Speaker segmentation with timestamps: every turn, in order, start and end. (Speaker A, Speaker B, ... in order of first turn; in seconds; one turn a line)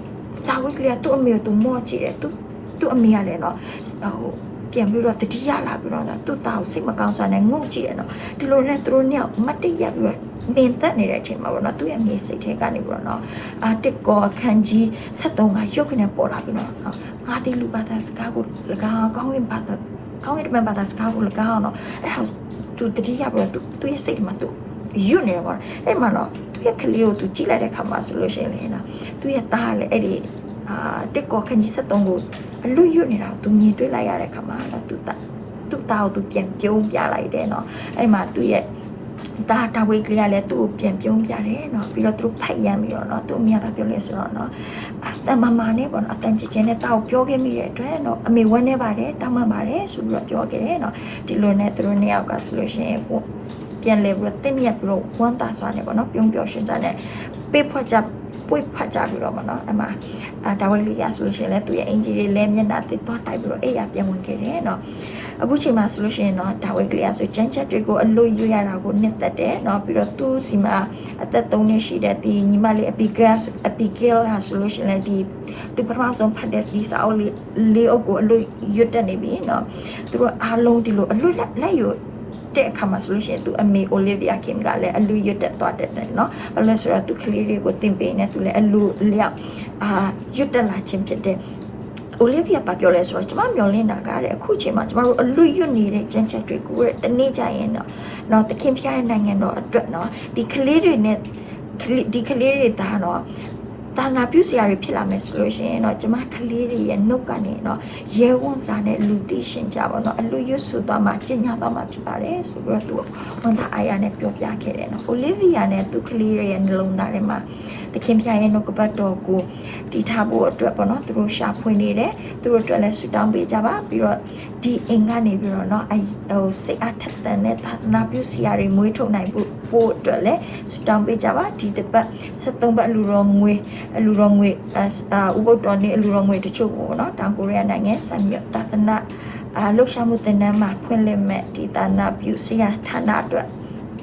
Speaker A: 0.4-38.7
Speaker A: 39.4-53.2
Speaker A: 53.8-82.0
Speaker A: 82.5-91.4
Speaker A: 92.2-101.3
Speaker A: 101.8-103.2
Speaker A: 104.0-143.5